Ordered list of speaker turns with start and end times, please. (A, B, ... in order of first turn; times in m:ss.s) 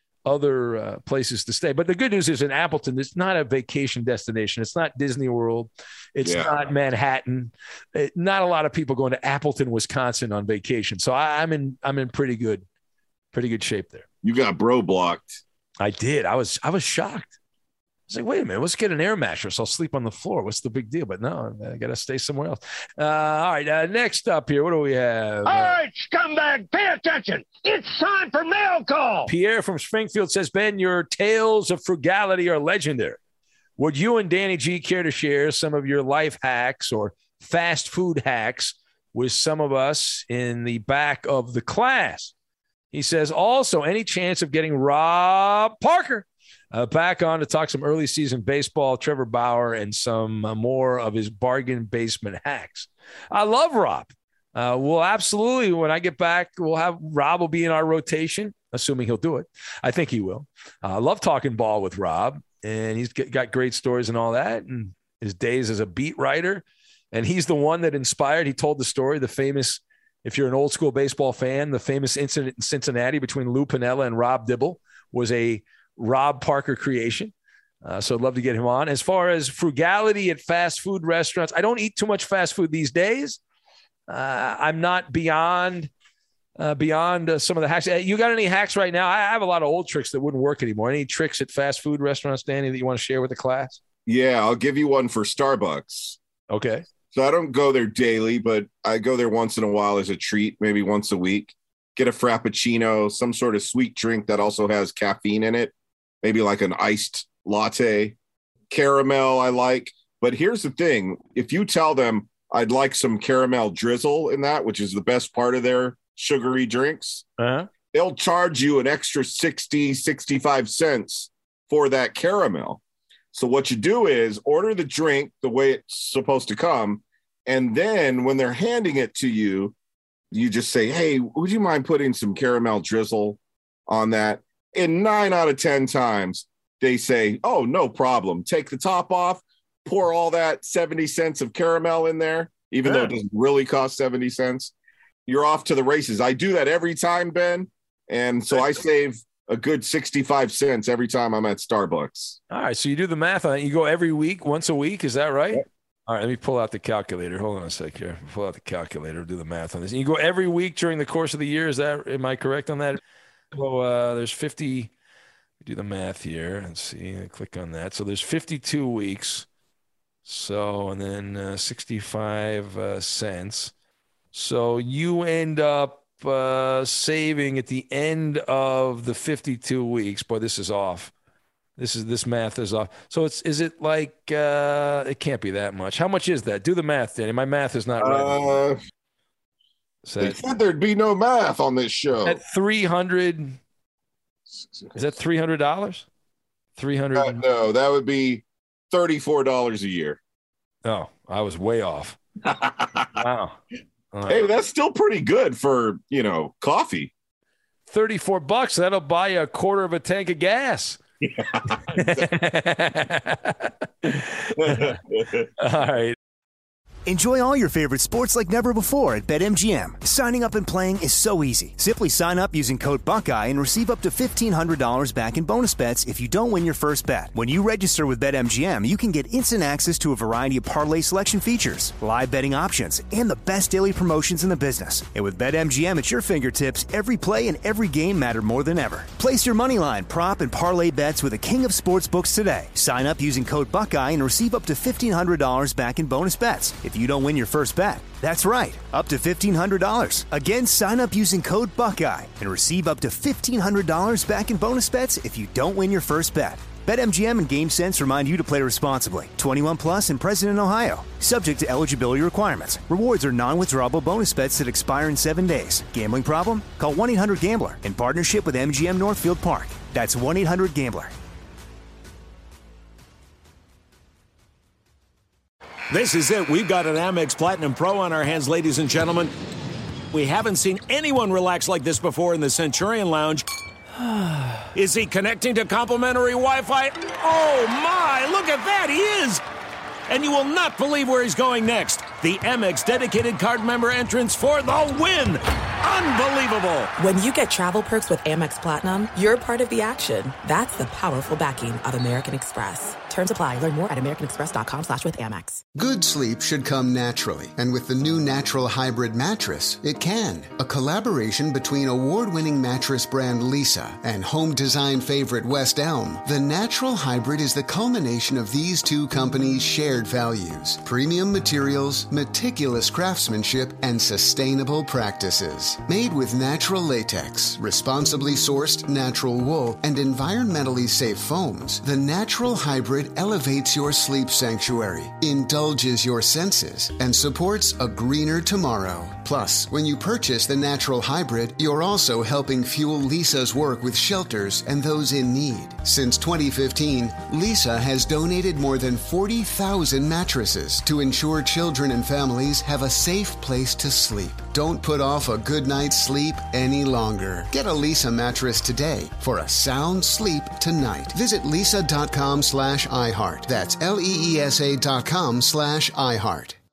0:00.2-0:12.6 A
0:06.2-0:06.6 B
0:13.3-0:14.0 A
0:14.2-0:15.4 B
0:15.8-0:17.3 A
0:18.1-0:25.8 A
0:25.5-0:29.3 C
0:29.2-0:33.2 A
0:33.8-0:42.3 A
0:42.9-1:23.4 A
1:24.1-1:25.9 A
1:26.6-1:33.8 A
1:34.0-1:36.2 B
1:36.5-1:36.8 A
1:37.1-1:45.7 B
1:46.2-1:48.2 B
1:48.7-1:57.2 B
1:57.4-1:57.7 A
1:57.9-2:02.8 B
2:03.3-2:09.7 B
2:10.3-2:24.7 B
2:22.9-2:23.1 A
2:25.3-2:32.4 B
2:32.5-2:43.0 A
2:43.5-2:44.9 A
2:45.6-2:49.5 A
2:50.2-2:53.7 A
2:54.3-3:01.1 A
3:01.8-3:08.6 A
3:08.0-3:08.8 B
3:10.0-3:10.4 A
3:10.2-3:12.4 B
3:12.2-3:13.6 A
3:14.6-3:15.0 B
3:14.9-3:16.0 A
3:16.8-3:17.4 A
3:17.2-3:20.2 B
3:20.8-3:22.2 A
3:22.4-3:23.1 B
3:23.2-3:23.6 A
3:24.1-3:24.5 A
3:24.3-3:27.1 B
3:27.9-3:31.0 A
3:31.4-3:31.7 B
3:31.9-3:35.0 A
3:34.6-3:35.5 B
3:35.6-3:36.2 A
3:37.0-4:31.1 D
4:35.9-4:39.3 E
4:40.1-4:43.4 E
4:44.6-4:49.4 E
4:50.1-4:56.9 E
4:57.0-5:05.6 F
5:05.7-6:06.6 G